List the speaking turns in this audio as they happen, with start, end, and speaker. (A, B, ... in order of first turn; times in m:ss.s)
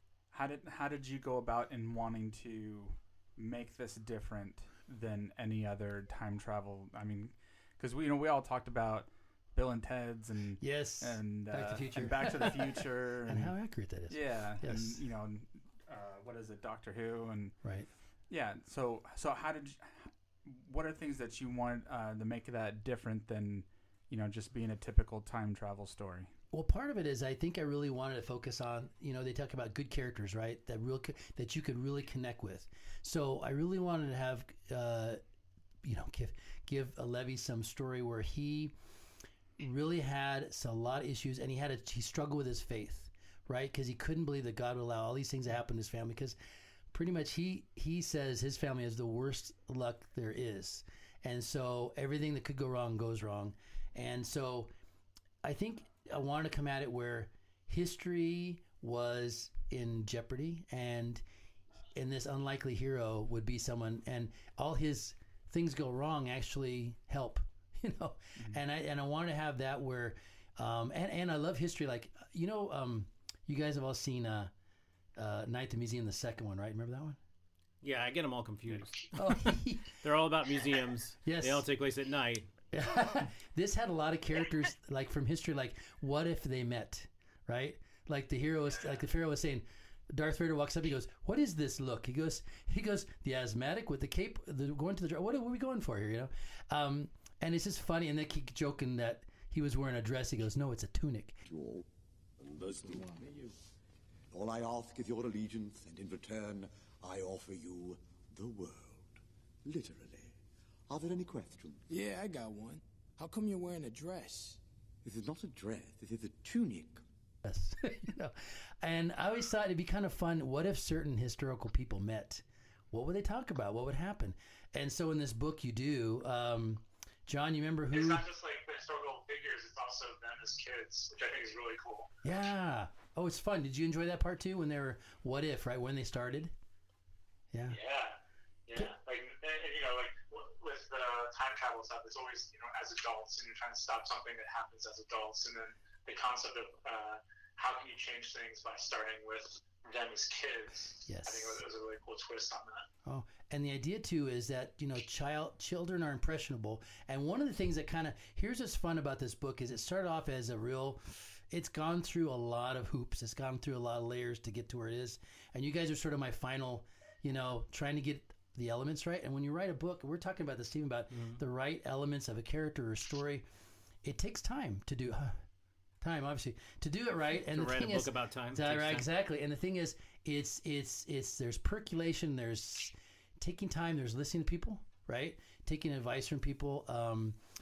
0:00.3-0:13.6 A
0:10.6-0:15.0 B
0:14.1-0:17.7 A
0:17.6-0:17.9 B
0:18.3-0:26.3 A
0:26.5-0:35.2 B
0:35.8-0:38.7 B
0:39.6-0:46.4 B
0:46.9-0:54.7 B
0:55.4-1:01.2 B
1:02.0-1:14.5 B
1:15.2-1:17.2 B
1:17.8-1:19.5 C
1:19.1-1:19.9 B
1:20.0-1:22.5 C
1:21.2-1:21.7 B
1:22.7-1:41.4 B
1:41.5-1:41.8 D
1:42.4-1:43.3 D
1:43.0-1:43.3 E
1:44.3-1:50.4 D
1:50.9-1:51.8 D
1:51.9-1:54.6 E
1:55.0-1:57.0 D
1:57.4-2:08.3 B
2:07.9-2:12.1 F
2:12.2-2:16.5 B
2:17.5-2:17.8 B
2:17.7-2:32.9 F
2:31.1-2:31.6 B
2:33.0-2:53.5 B
2:51.1-2:51.4 C
2:54.0-2:55.4 B
2:56.0-3:07.4 B
2:57.4-2:59.1 C